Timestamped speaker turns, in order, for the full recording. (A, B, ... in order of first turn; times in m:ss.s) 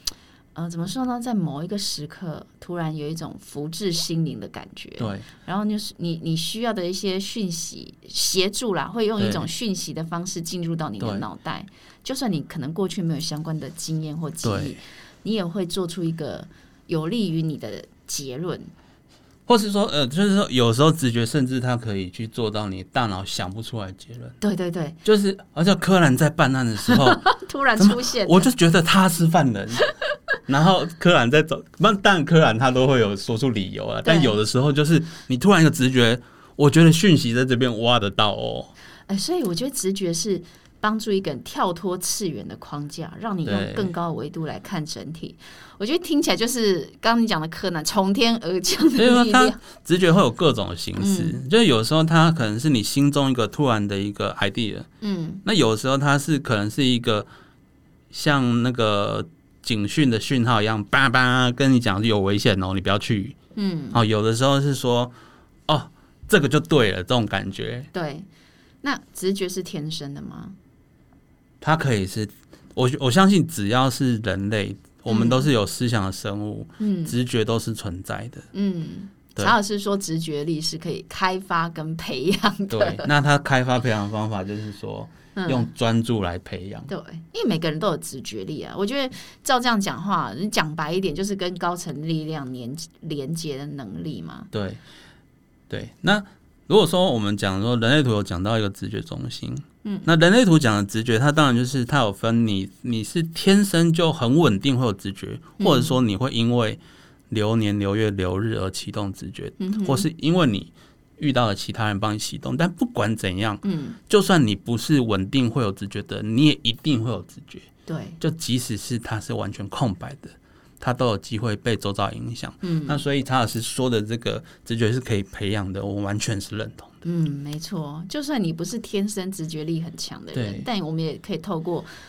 0:00.6-0:18.7 A
0:05.0-0:05.3 B
0:09.2-0:09.5 B
0:11.0-0:11.2 B
0:14.4-0:14.8 B
0:19.5-0:24.4 B
0:24.4-0:25.0 A
0:25.0-0:27.2 B
0:26.9-0:28.5 A
0:27.8-0:29.9 B
0:30.5-0:38.7 B
0:34.0-0:34.4 A
0:39.1-0:49.6 A
0:43.5-0:43.9 B
0:49.0-0:54.9 B
0:51.0-0:51.4 A
0:55.0-0:55.4 A
0:55.4-0:57.3 B
0:58.1-1:03.4 B
1:03.6-1:04.0 A
1:03.9-1:05.1 B
1:05.7-1:07.9 B
1:07.9-1:08.3 A
1:08.8-1:10.6 A
1:11.6-1:18.5 B
1:15.1-1:15.5 A
1:16.8-1:17.2 A
1:18.5-1:23.1 A
1:22.7-1:26.9 B
1:25.4-1:25.7 A
1:26.9-1:34.5 A
1:34.5-1:34.8 B
1:35.7-1:57.7 B
1:39.8-1:40.1 A
1:45.6-1:46.0 A
1:49.6-1:50.1 A
1:53.6-1:54.0 A
1:57.9-1:58.2 A
1:58.2-2:07.0 B
2:02.6-2:03.0 A
2:07.0-2:11.9 A
2:10.3-2:10.7 B